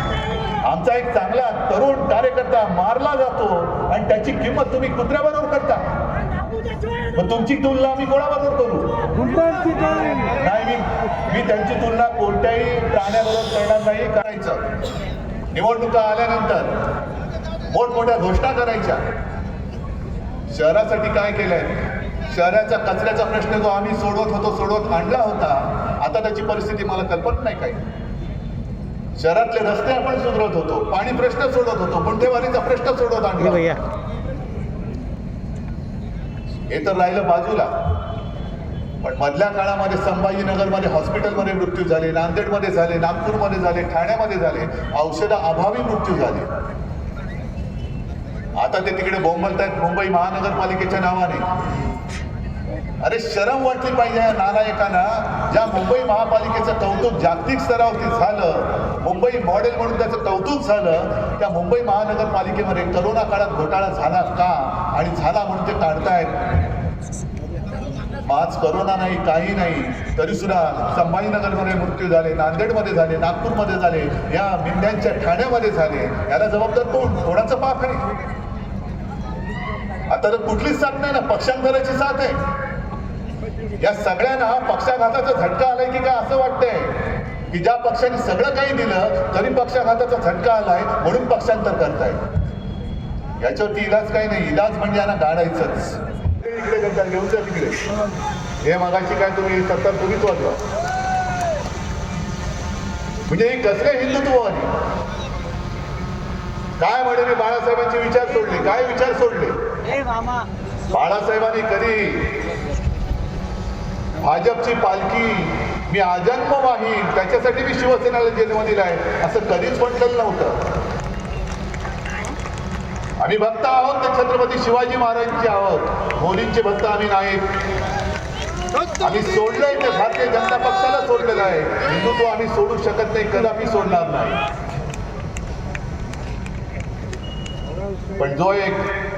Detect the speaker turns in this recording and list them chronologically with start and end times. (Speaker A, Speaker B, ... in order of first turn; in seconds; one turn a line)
Speaker A: 0.6-5.8
Speaker A: 7.1-9.5
Speaker A: 10.3-14.7
Speaker A: 15.5-16.7
Speaker A: 17.7-19.0
Speaker A: 20.5-27.9
Speaker A: 29.2-33.8
Speaker A: 36.7-37.7
Speaker A: 39.0-46.5
Speaker A: 48.6-51.5
Speaker A: 53.0-66.4
Speaker A: 68.2-78.0
Speaker A: 80.1-82.4
Speaker A: 83.8-92.2
Speaker A: 93.4-97.8
Speaker A: 98.6-100.6
Speaker A: 103.3-104.7
Speaker A: 106.8-109.5
Speaker A: 110.9-112.4
Speaker A: 114.2-120.6
Speaker A: 123.2-127.4
Speaker A: 129.0-134.4
Speaker A: 138.2-138.9